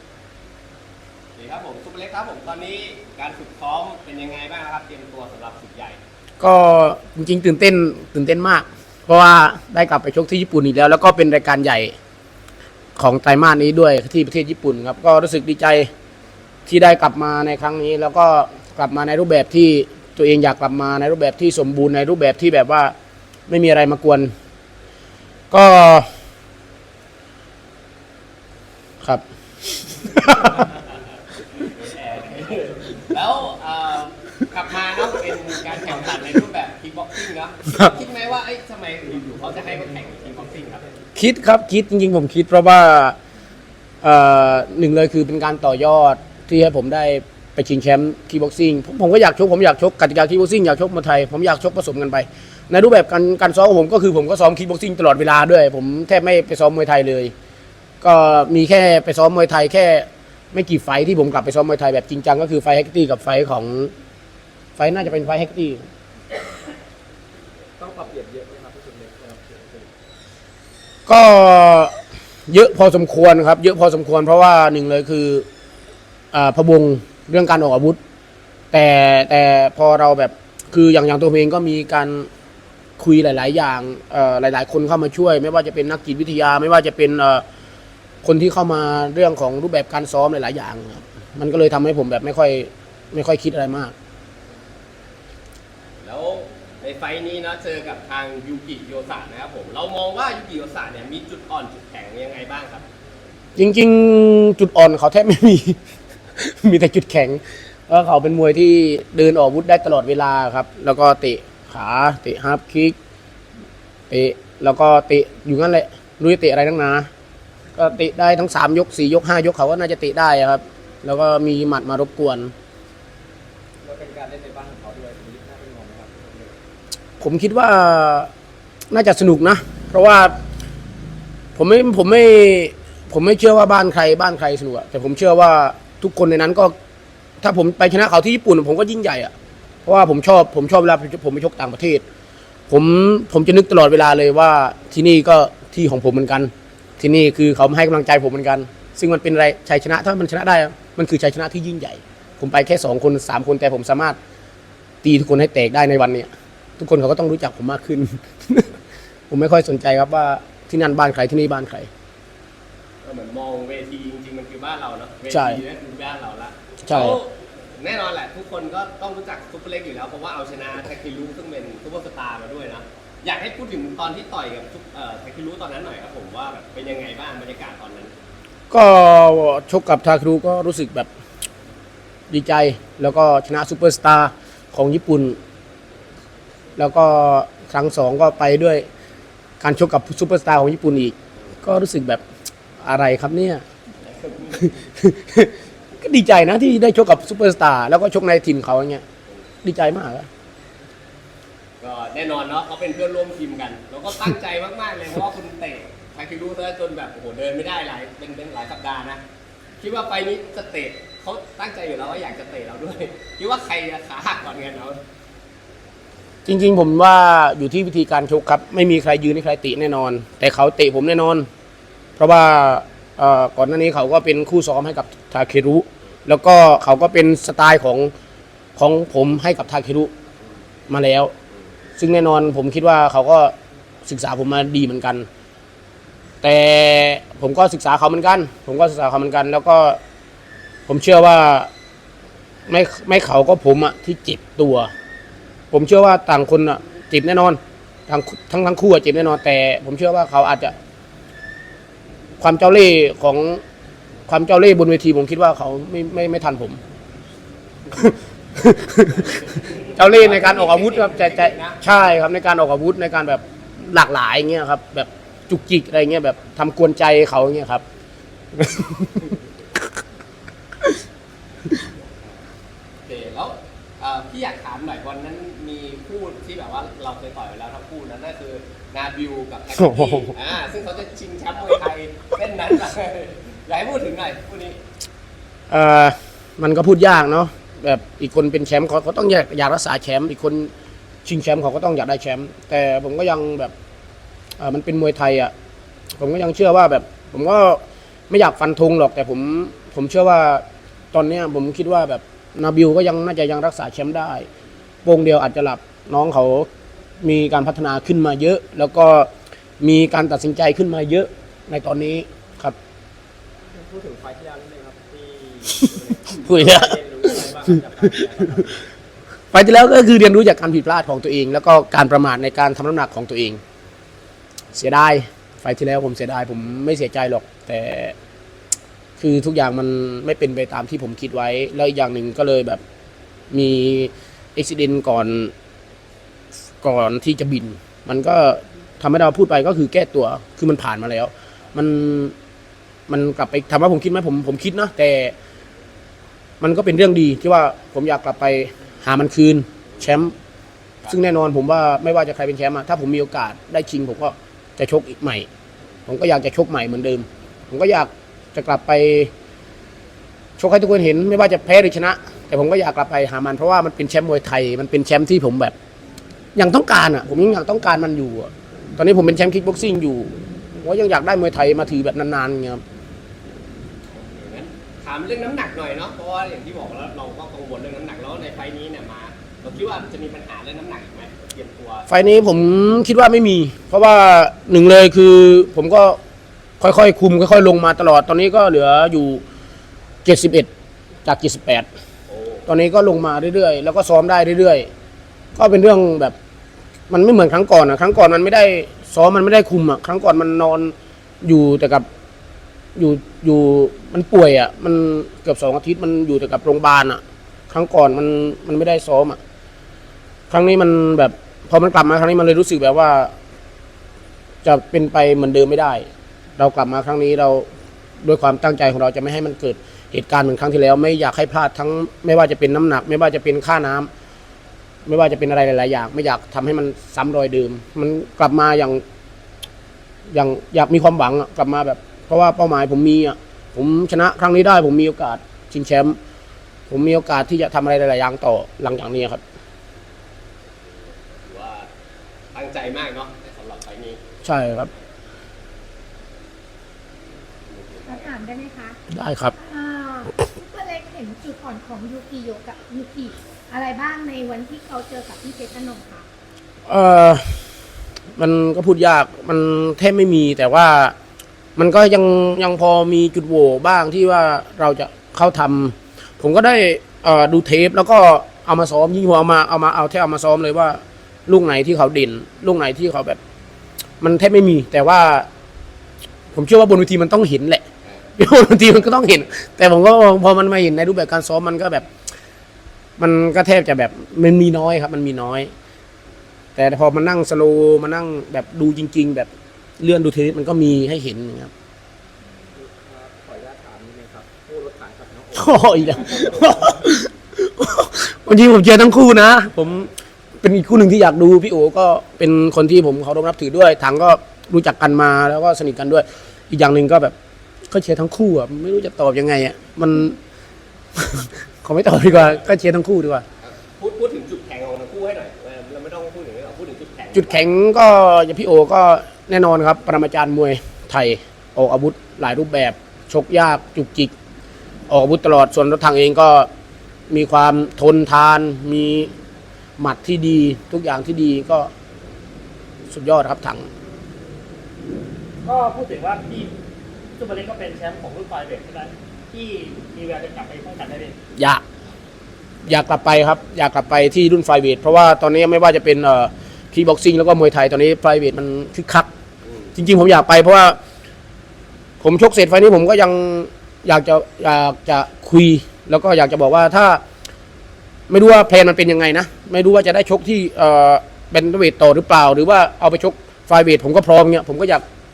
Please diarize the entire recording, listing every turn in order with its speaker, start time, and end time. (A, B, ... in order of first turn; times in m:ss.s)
0:01.4-0:06.0 A
0:06.4-0:11.9 B
0:13.0-0:15.9 B
0:16.7-0:22.9 B
0:23.5-0:24.3 B
0:25.5-0:26.1 B
0:29.9-0:30.7 B
0:31.6-0:40.9 A
0:41.1-0:43.2 B
0:44.0-0:57.3 B
0:58.0-1:03.9 B
1:04.8-1:05.8 B
1:07.8-1:09.9 C
1:11.1-1:12.0 B
1:12.5-1:15.4 B
1:16.3-1:18.0 B
1:18.7-1:22.3 B
1:23.0-1:27.4 B
1:28.2-1:33.9 B
1:36.0-1:42.8 A
1:43.6-1:45.8 B
1:46.3-1:52.9 B
1:54.1-1:57.1 B
1:57.8-2:02.5 B
2:03.8-2:06.5 C
2:07.2-2:08.3 B
2:08.9-2:10.4 B
2:11.6-2:16.7 B
2:17.4-2:19.3 B
2:19.8-2:22.0 B
2:22.7-2:34.2 B
2:35.0-2:38.8 B
2:39.3-2:41.9 B
2:43.0-2:58.1 A
2:45.3-2:45.6 B
2:46.8-2:47.2 B
2:58.7-3:01.1 B
3:02.3-3:05.4 B
3:06.8-3:08.8 B
3:09.6-3:12.2 B
3:12.8-3:13.6 B
3:14.0-3:14.7 A
3:14.7-3:19.0 B
3:19.6-3:20.3 B
3:21.8-3:29.2 A
3:29.8-3:35.0 A
3:36.4-3:41.5 B
3:42.2-3:48.1 B
3:48.8-3:50.1 B
3:50.9-3:51.3 B
3:52.0-3:53.5 B
3:54.0-3:55.3 B
3:56.4-4:00.0 B
4:00.9-4:01.7 B
4:02.7-4:04.9 B
4:05.7-4:10.7 B
4:12.4-4:13.6 B
4:14.3-4:16.8 B
4:17.9-4:27.8 B
4:19.7-4:21.8 A
4:28.5-4:29.3 B
4:33.0-4:44.8 A
4:39.7-4:40.3 B
4:45.7-4:50.7 B
4:51.2-4:53.7 B
4:54.6-4:55.5 B
4:56.2-5:04.4 B
5:05.0-5:06.7 B
5:07.2-5:09.3 B
5:09.8-5:12.8 B
5:13.7-5:18.9 C
5:16.4-5:17.0 B
5:19.5-5:23.6 B
5:24.7-5:28.1 B
5:29.2-5:32.8 B
5:33.5-5:35.5 B
5:36.8-5:42.3 B
5:43.1-5:45.3 B
5:46.6-5:50.3 B
5:51.1-5:55.5 B
5:56.1-5:59.3 B
6:00.6-6:05.7 B
6:06.6-6:12.8 B
6:14.1-6:22.1 A
6:22.1-6:26.2 B
6:26.8-6:29.4 B
6:30.2-6:30.7 B
6:31.2-6:31.9 B
6:32.3-6:32.7 A
6:32.6-6:34.9 B
6:35.6-6:36.3 B
6:37.1-6:42.0 B
6:43.0-6:49.4 B
6:50.5-6:53.3 B
6:54.6-6:57.7 B
6:58.2-7:04.1 B
7:05.0-7:09.0 B
7:10.3-7:16.2 B
7:16.9-7:19.4 B
7:20.8-7:21.9 A
7:22.5-7:24.2 A
7:24.4-7:24.9 B
7:24.7-7:25.0 A
7:27.7-7:28.4 A
7:28.0-7:29.0 D
7:29.1-7:29.5 B
7:29.5-7:36.3 D
7:36.8-7:37.6 B
7:38.4-7:41.1 B
7:41.8-7:53.4 B
7:54.2-7:55.5 B
7:56.5-7:57.8 B
7:58.4-8:02.0 B
8:03.2-8:05.7 B
8:06.8-8:11.7 B
8:12.7-8:17.2 C
8:15.5-8:20.1 B
8:20.6-8:27.3 B
8:27.9-8:30.4 B
8:31.2-8:33.4 B
8:33.6-8:37.7 A
8:37.3-8:44.3 B
8:45.1-8:46.7 B
8:47.3-8:49.3 B
8:50.0-8:51.9 B
8:53.1-8:53.9 B
8:55.6-8:56.7 E
8:57.4-9:01.3 E
9:01.6-9:01.8 B
9:02.8-9:09.3 B
9:09.6-9:09.9 A
9:09.9-9:11.0 B
9:12.2-9:17.2 B
9:18.3-9:25.0 B